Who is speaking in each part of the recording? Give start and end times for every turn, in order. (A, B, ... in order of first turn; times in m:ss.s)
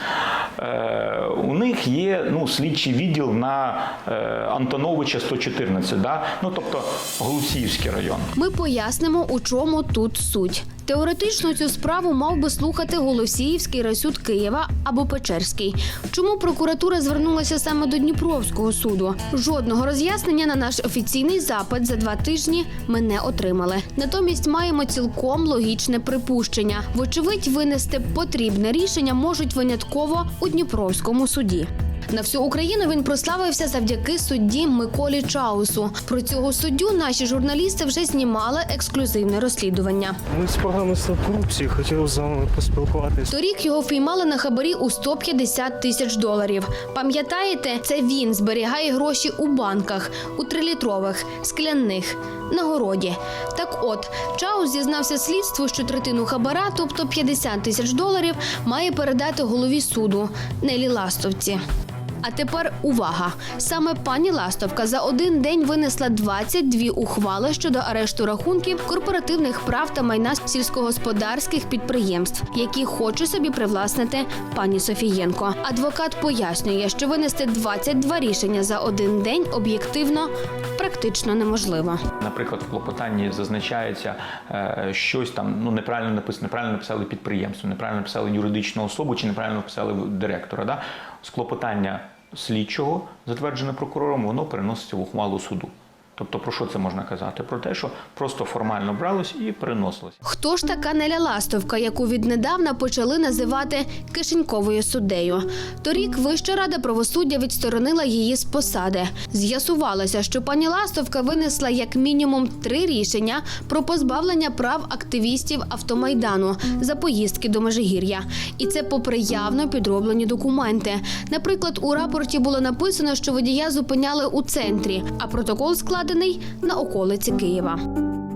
0:00.6-0:08.3 A
0:08.4-0:40.2 B
0:40.4-0:43.3 C
0:43.3-1:01.6 B
1:02.2-1:22.0 B
1:22.2-1:40.2 A
1:40.2-2:07.8 B